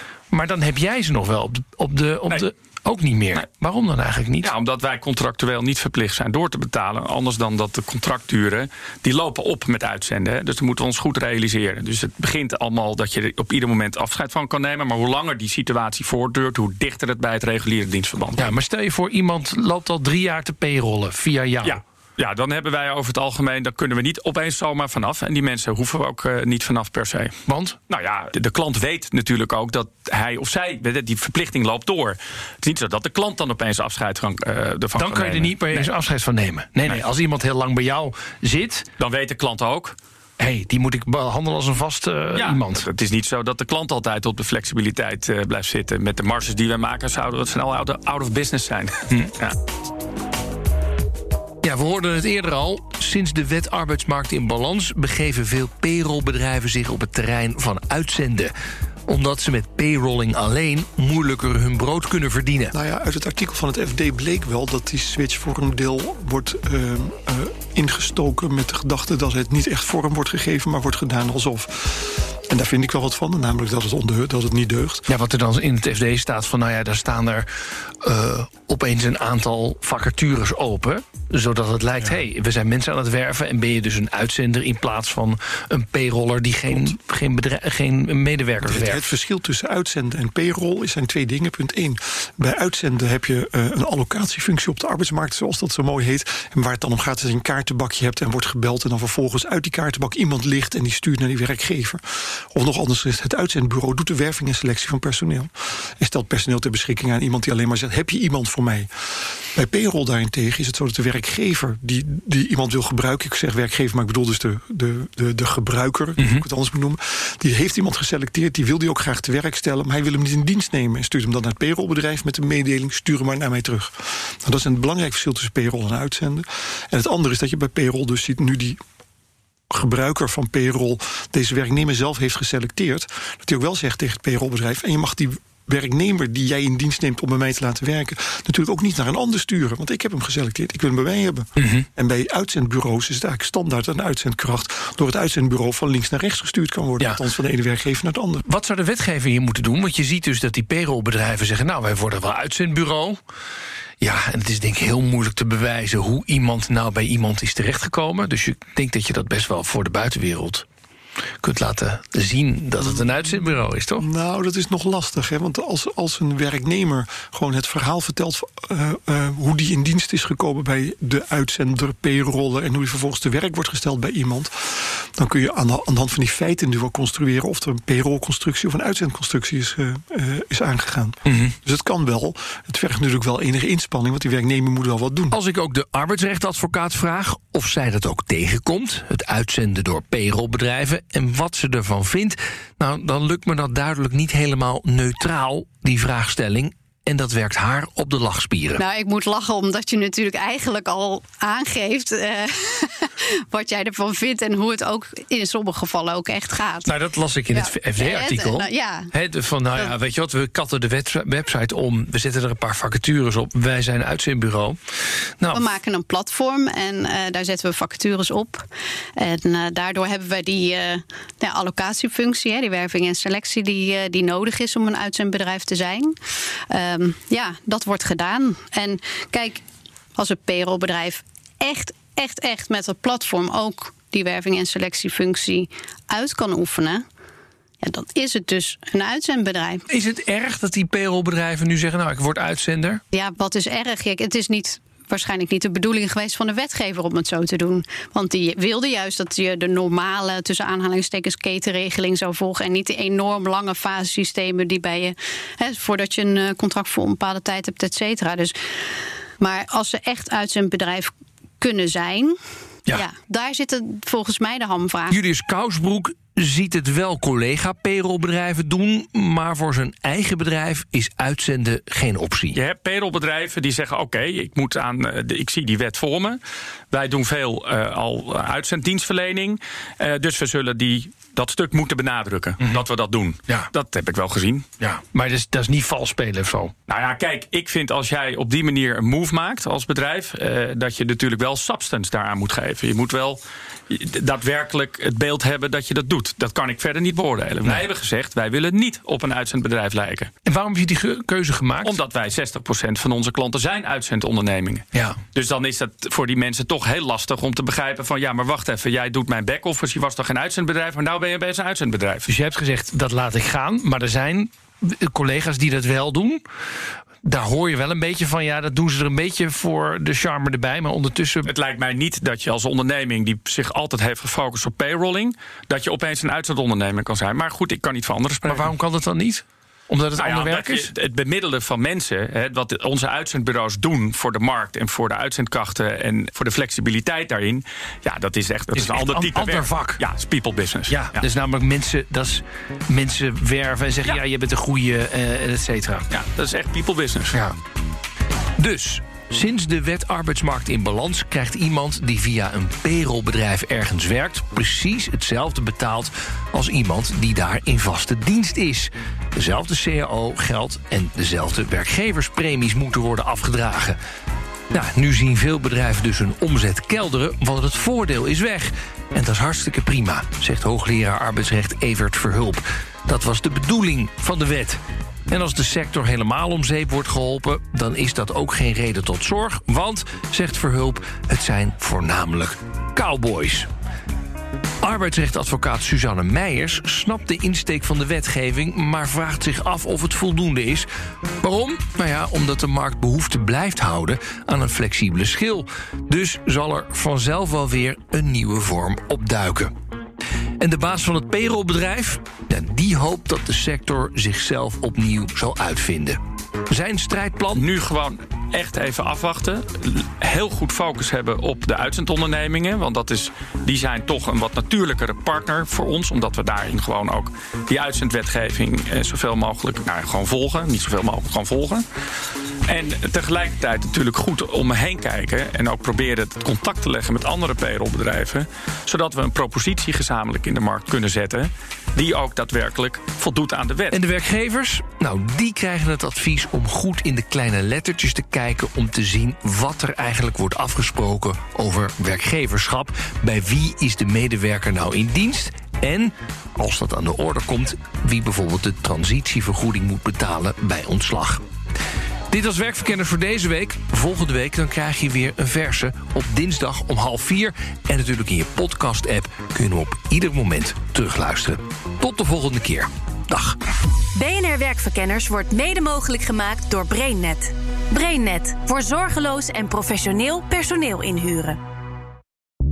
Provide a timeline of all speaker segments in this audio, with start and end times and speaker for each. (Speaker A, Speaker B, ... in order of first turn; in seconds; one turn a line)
Speaker A: 0.3-4.5
Speaker B: 4.4-18.6
Speaker A: 18.4-21.8
Speaker B: 21.6-27.4
Speaker A: 27.5-27.8
Speaker B: 27.9-35.9
Speaker A: 35.0-38.9
Speaker B: 39.0-40.0
Speaker A: 40.4-42.9
Speaker B: 42.4-49.6
Speaker A: 51.6-58.5
Speaker A: 59.1-62.7
Speaker C: 62.7-75.1
Speaker A: 75.1-89.0
Speaker C: 88.6-108.9
Speaker C: 109.5-128.8
Speaker A: 116.2-116.5
Speaker C: 129.7-148.4
Speaker A: 141.6-141.9
Speaker A: 148.4-153.2
Speaker A: 154.0-160.7
Speaker A: 161.4-164.1
Speaker C: 162.8-185.4
Speaker A: 181.3-181.6
Speaker A: 185.3-198.8
Speaker D: 198.8-206.9
Speaker A: 206.8-214.8
Speaker D: 207.5-209.1
Speaker A: 215.4-215.7
Speaker D: 215.5-226.2
Speaker D: 226.7-229.6
Speaker D: 230.2-237.0
Speaker D: 237.8-239.8
Speaker A: 239.9-243.0
Speaker D: 243.1-258.6
Speaker D: 259.4-262.4
Speaker D: 262.9-265.2
Speaker A: 265.1-272.6
Speaker B: 272.6-284.6
Speaker A: 284.8-286.7
Speaker B: 286.9-300.3
Speaker A: 300.4-302.0
Speaker B: 301.8-312.3
Speaker A: 312.3-316.4
Speaker A: 317.2-321.5
Speaker B: 321.4-328.7
Speaker A: 328.5-330.9
Speaker B: 330.2-341.2
Speaker A: 338.8-340.0
Speaker A: 340.9-346.1
Speaker B: 346.1-347.3
Speaker A: 347.3-347.6
Speaker A: 348.6-364.0
Speaker A: 364.7-383.7
Speaker A: 384.8-390.9
Speaker A: 391.4-399.7
Speaker A: 400.6-407.6
Speaker B: 407.5-421.9
Speaker B: 422.7-434.0
Speaker A: 433.9-451.4
Speaker A: 452.3-463.6
Speaker E: 464.1-471.6